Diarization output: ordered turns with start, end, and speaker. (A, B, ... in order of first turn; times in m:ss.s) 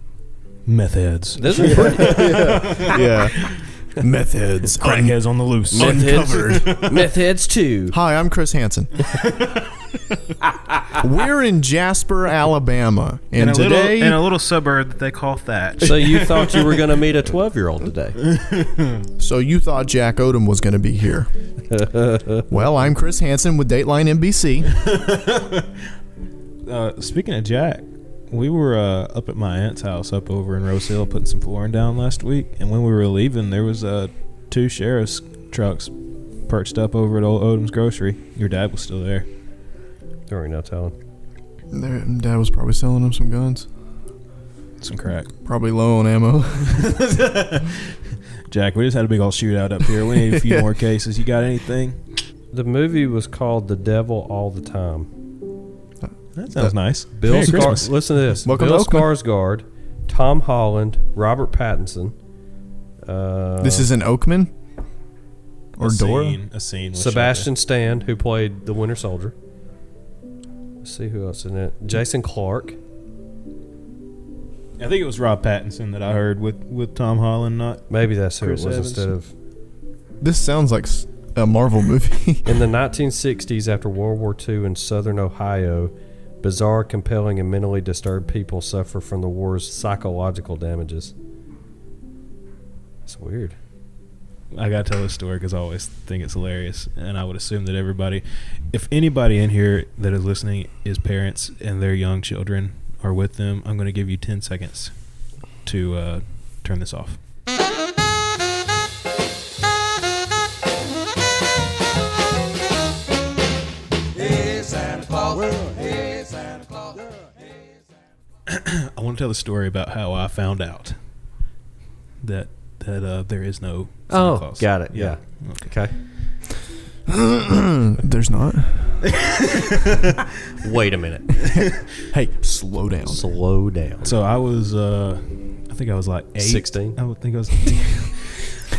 0:00.7-0:03.6 A
0:01.4-0:02.9 B
0:01.6-0:05.2 C
0:04.7-0:07.1 A
0:05.7-0:06.8 C
0:05.7-0:08.0 B
0:07.9-0:08.9 C
0:09.1-0:09.6 A
0:11.0-0:14.3 C
0:13.4-0:16.9 A
0:15.8-0:18.2 B
0:18.2-0:19.0 A
0:19.2-0:21.3 C
0:21.7-0:22.5 B
0:22.5-0:24.8 C
0:24.7-0:25.7 A
0:26.7-0:35.9 A
0:36.5-0:39.3 A
0:40.3-0:41.0 B
0:41.7-0:43.7 C
0:44.8-0:45.3 A
0:45.4-0:46.9 C
0:46.6-0:47.9 A
0:48.5-0:52.0 A
0:50.3-0:50.7 C
0:52.5-0:55.1 B
0:56.0-0:56.8 C
0:56.4-0:57.9 A
0:57.2-1:02.1 B
0:57.3-0:57.8 C
0:58.4-0:59.1 C
1:03.0-1:03.9 B
1:03.6-1:04.5 C
1:05.8-1:06.4 C
1:05.8-1:07.5 A
1:07.0-1:09.4 B
1:10.8-1:12.8 B
1:14.8-1:19.1 A
1:17.9-1:19.3 B
1:20.2-1:22.5 C
1:22.4-1:31.1 B
1:33.1-1:33.6 B
1:34.5-1:45.0 A
1:45.6-1:47.2 A
1:58.5-2:01.0 A
2:02.2-2:05.7 A
2:04.1-2:05.9 B
2:07.1-2:09.1 C
2:09.0-2:10.2 A
2:10.6-2:11.3 B
2:11.4-2:13.2 C
2:13.1-2:14.2 B
2:14.0-2:18.7 A
2:16.4-2:17.0 B